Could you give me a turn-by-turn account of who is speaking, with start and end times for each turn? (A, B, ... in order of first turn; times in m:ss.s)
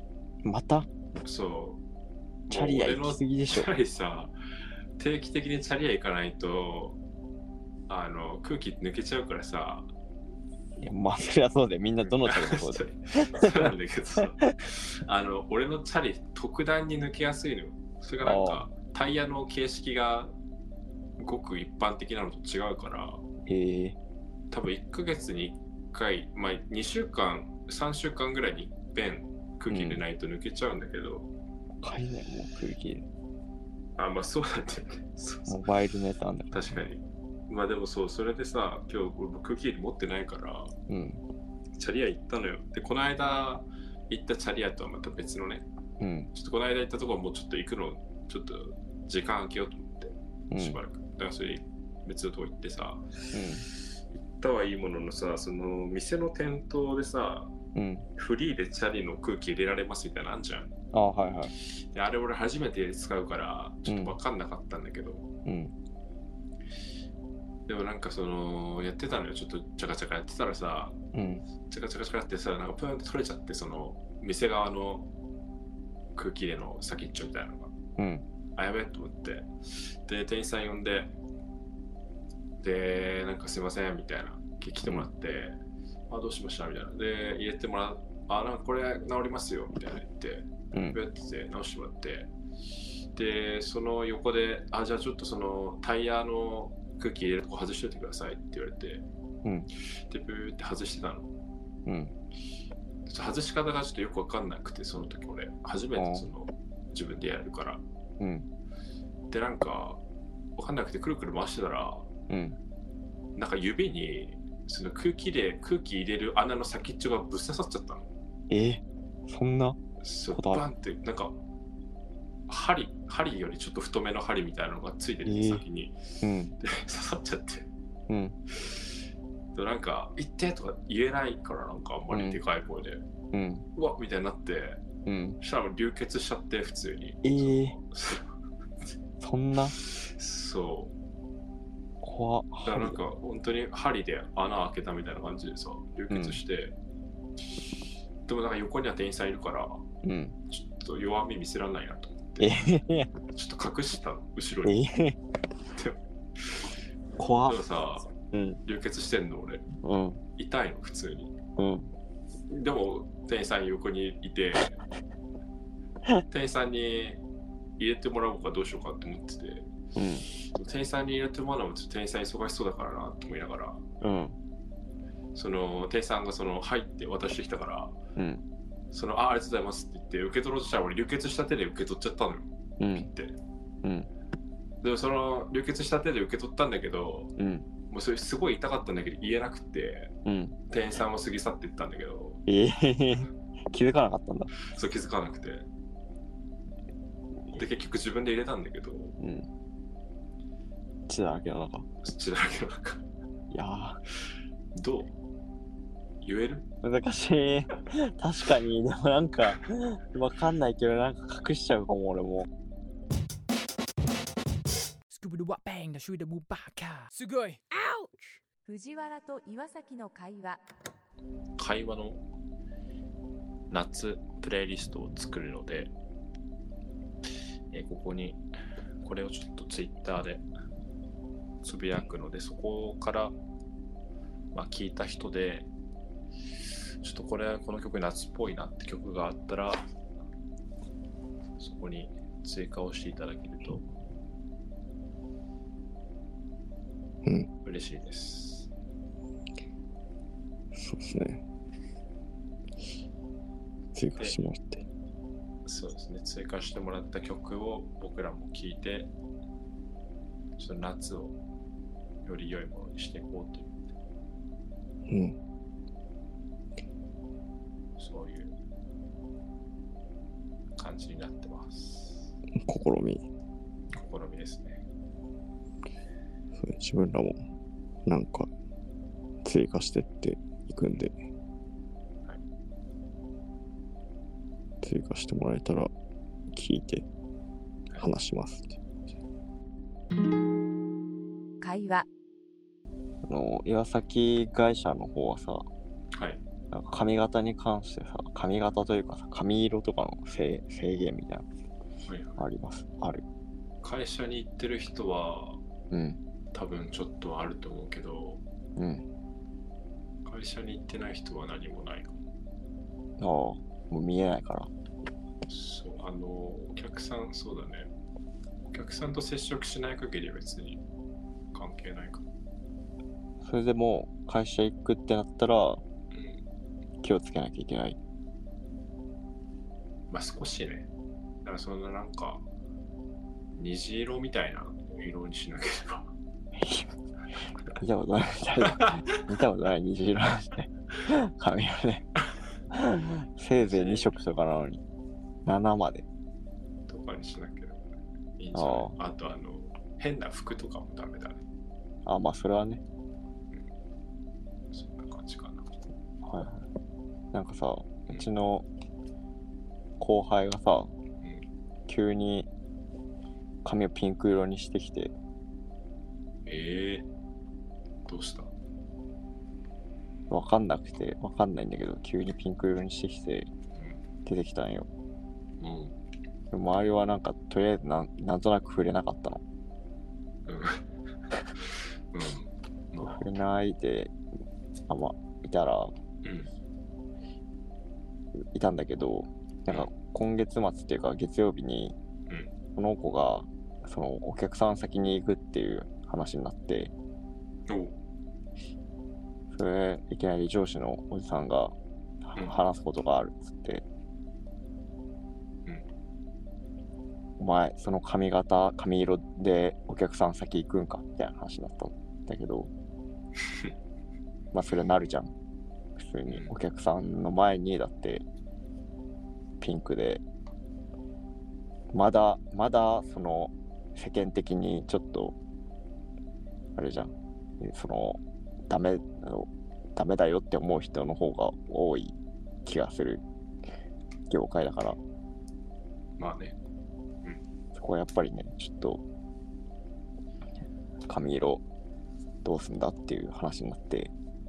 0:00.4-0:00.9 A
0:01.2-0:01.8 B
0:02.5-0:04.3 B
0:02.5-0:03.7 A
0:05.0-0:07.0 B
0:07.9-0:09.9 B
0:10.8-0:13.7 A
0:12.0-0:20.3 B
0:18.2-0:18.7 A
0:21.2-0:23.2 B
0:23.5-0:24.0 A
0:24.5-0:31.3 B
0:29.7-0:30.0 A
0:31.8-0:33.1 A
0:34.0-0:35.6 B
0:35.5-0:36.8 A
0:36.5-0:40.7 B
0:40.9-0:41.2 A
0:41.8-0:45.7 B
0:46.0-0:46.3 A
0:46.3-0:53.1 B
0:50.5-0:50.8 A
0:53.3-0:53.7 A
0:54.1-0:57.5 B
0:57.8-0:58.1 A
0:58.2-1:00.7 B
1:00.9-1:01.5 A
1:01.6-1:05.3 B
1:03.9-1:04.2 A
1:05.4-1:05.7 A
1:07.7-1:11.0 B
1:11.1-1:11.4 A
1:11.7-1:15.1 B
1:16.2-1:17.7 B
1:18.0-1:18.2 A
1:18.6-1:21.1 B
1:22.6-1:25.6 B
1:26.1-1:32.3 B
1:30.7-1:31.0 A
1:33.2-1:39.0 B
1:39.4-1:39.7 A
1:40.1-1:41.3 B
1:41.9-1:42.1 A
1:43.1-1:47.8 B
1:46.0-1:46.3 A
1:48.2-1:48.5 A
1:49.3-1:50.0 B
1:50.6-1:52.1 B
1:52.3-1:52.6 A
1:53.4-1:58.1 B
1:58.5-1:59.8 A
2:00.0-2:01.4 B
2:00.3-2:00.7 A
2:02.5-2:06.0 B
2:05.2-2:05.6 A
2:06.2-2:06.5 A
2:06.6-2:07.7 B
2:08.1-2:08.4 A
2:09.6-2:13.0 B
2:12.1-2:12.4 A
2:13.3-2:13.7 A
2:13.8-2:14.8 B
2:15.1-2:15.4 A
2:15.4-2:18.3 B
2:17.2-2:17.8 A
2:19.2-2:19.8 A
2:19.7-2:20.9 B
2:22.0-2:23.0 A
2:22.6-2:26.8 B
2:26.1-2:26.4 A
2:28.3-2:29.8 B
2:30.0-2:30.4 A
2:30.5-2:32.8 B
2:32.4-2:33.1 A
2:33.3-2:34.8 B
2:34.6-2:35.2 A
2:35.7-2:36.7 B
2:37.2-2:38.6 A
2:37.5-2:38.1 B
2:38.6-2:39.7 B
2:39.8-2:40.2 A
2:40.4-2:41.3 B
2:41.6-2:41.9 A
2:42.5-2:44.8 B
2:46.3-2:47.2 B
2:47.8-2:49.7 B
2:50.0-2:50.3 A
2:50.3-2:53.9 B
2:54.0-2:54.4 A
2:55.4-2:58.0 B
2:58.2-2:58.4 A
2:58.9-3:03.4 B
3:02.8-3:03.1 A
3:03.8-3:04.1 A
3:04.8-3:07.3 B
3:07.4-3:07.7 A
3:07.9-3:10.1 B
3:10.2-3:10.6 A
3:10.7-3:12.4 B
3:12.5-3:14.5 A
3:14.7-3:15.7 B
3:17.5-3:19.2 B
3:19.2-3:19.5 A
3:21.1-3:21.9 A
3:22.0-3:23.0 B
3:23.5-3:24.0 A
3:24.8-3:25.1 B
3:26.2-3:26.7 B
3:26.8-3:32.5 A
3:35.1-3:38.4 C
3:38.7-3:40.6 D
3:41.6-3:42.2 B
3:43.7-3:45.9 B
3:47.7-3:48.4 B
3:49.0-3:50.4 B
3:51.6-3:53.4 B
3:54.5-3:55.7 B
3:57.0-3:59.8 B
4:01.6-4:03.8 B
4:07.6-4:08.7 B
4:10.7-4:11.4 A
4:13.9-4:14.9 A
4:15.7-4:19.1 B
4:20.6-4:21.4 B
4:22.2-4:23.9 B
4:25.1-4:25.4 A
4:28.0-4:28.5 B
4:30.8-4:32.4 B
4:32.6-4:33.2 A
4:33.9-4:34.8 B
4:36.6-4:37.4 A
4:38.1-4:38.5 A
4:39.4-4:41.2 A
4:44.8-4:45.9 A
4:46.5-4:47.0 A
4:48.0-4:48.8 A
4:51.6-4:52.1 D
4:53.2-4:55.7 A
4:56.2-4:56.4 B
4:56.7-5:01.5 A
5:02.0-5:02.4 B
5:02.4-5:03.2 A
5:03.8-5:05.6 B
5:05.9-5:06.2 A
5:06.5-5:08.4 B
5:08.8-5:09.0 A
5:10.2-5:12.2 B
5:13.2-5:14.7 A
5:15.5-5:17.9 B
5:18.7-5:20.8 B
5:21.5-5:22.2 B
5:23.4-5:25.8 A
5:26.1-5:26.4 B
5:27.0-5:28.0 A
5:30.1-5:30.9 B
5:31.4-5:32.5 B
5:33.6-5:36.1 B
5:36.6-5:36.9 A
5:37.8-5:42.1 A
5:38.6-5:39.0 B
5:42.7-5:44.8 A
5:43.6-5:44.2 B
5:45.4-5:46.1 A
5:46.9-5:47.8 B
5:48.4-5:51.4 B
5:48.6-5:48.9 A
5:52.0-5:52.8 A
5:54.7-5:55.7 B
5:56.2-5:56.6 A
5:57.3-5:58.6 A
6:00.0-6:00.9 A
6:01.9-6:02.5 A
6:03.6-6:05.1 A
6:06.5-6:07.1 B
6:08.1-6:08.5 B
6:10.3-6:13.5 A
6:14.2-6:14.9 A
6:15.6-6:16.0 B
6:16.5-6:19.4 A
6:20.5-6:20.8 B
6:22.1-6:23.3 B
6:23.0-6:24.1 A
6:24.9-6:25.9 A
6:26.2-6:26.5 B
6:28.5-6:32.0 A
6:32.8-6:36.9 A
6:37.7-6:38.0 B
6:39.5-6:41.8 A
6:42.3-6:43.8 A
6:47.4-6:52.7 A
6:54.5-6:55.3 A
6:56.0-6:58.2 A
6:56.3-6:56.5 B
6:59.6-7:00.2 A
7:01.9-7:05.4 A
7:06.8-7:13.2 A
7:14.3-7:15.0 A
7:16.2-7:16.6 B
7:17.8-7:19.0 A
7:21.1-7:21.6 A
7:22.4-7:24.1 A